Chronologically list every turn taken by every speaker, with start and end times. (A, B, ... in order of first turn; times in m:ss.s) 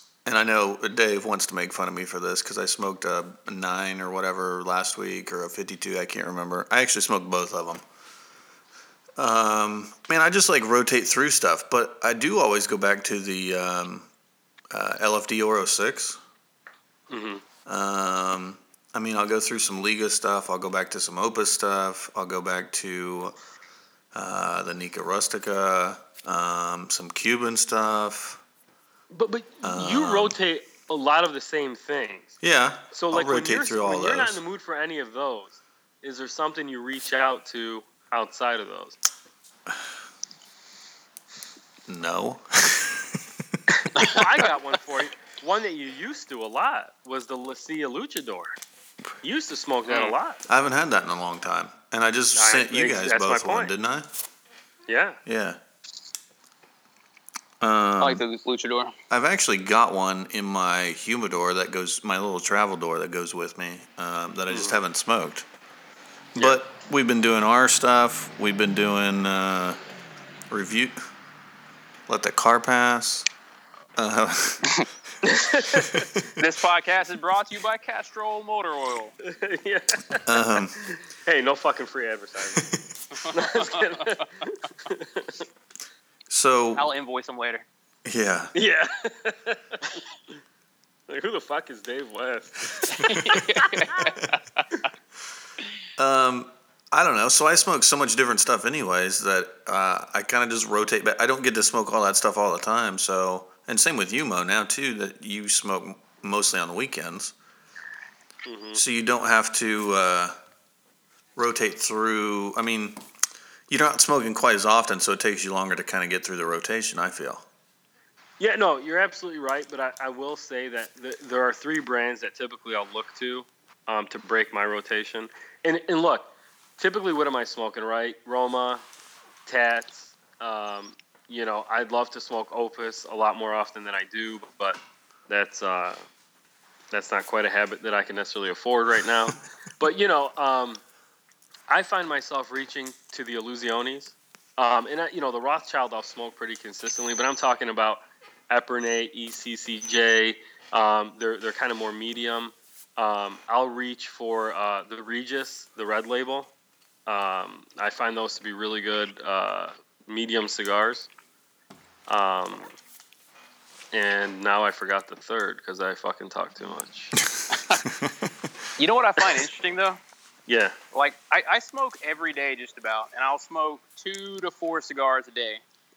0:00.2-0:07.8 A
0:09.2-0:14.1 A
0:14.7-0:16.2 A
0:17.1-0:17.4 B
0:17.7-0:23.3 A
0:24.1-0:28.4 A
0:29.1-0:32.4 B
0:29.6-0:30.4 A
0:32.4-0:34.4 A
0:32.9-0:39.0 B
0:41.9-0:43.2 A
0:44.0-0:44.5 C
0:44.0-0:48.6 B
0:49.2-0:50.4 B
0:49.9-0:50.2 C
0:50.5-0:54.1 A
0:52.4-0:53.7 B
0:54.9-0:55.2 B
0:55.3-0:55.6 A
0:57.6-0:58.2 A
0:58.0-0:58.9 C
0:59.1-1:05.4 A
1:04.5-1:04.8 B
1:06.4-1:09.8 A
1:10.5-1:10.9 A
1:12.1-1:13.3 A
1:14.0-1:14.8 A
1:15.2-1:16.1 B
1:15.7-1:16.2 A
1:16.4-1:19.2 C
1:19.3-1:22.7 B
1:20.3-1:20.8 A
1:23.1-1:24.2 C
1:23.3-1:25.4 B
1:26.3-1:26.9 A
1:26.8-1:27.7 C
1:28.1-1:28.5 A
1:28.6-1:30.0 B
1:31.1-1:33.9 B
1:32.9-1:34.8 C
1:33.1-1:33.4 A
1:36.0-1:47.3 A
1:48.5-1:48.8 B
1:48.8-1:50.4 A
1:51.4-1:53.0 A
1:53.7-1:57.4 A
1:58.4-2:08.8 B
2:09.5-2:16.0 B
2:16.9-2:20.8 B
2:21.7-2:36.5 B
2:37.1-2:41.1 B
2:42.1-2:42.7 B
2:43.9-2:47.1 B
2:47.2-2:48.3 A
2:47.5-2:47.8 C
2:48.8-2:50.0 C
2:50.5-2:50.8 B
2:50.9-2:55.6 C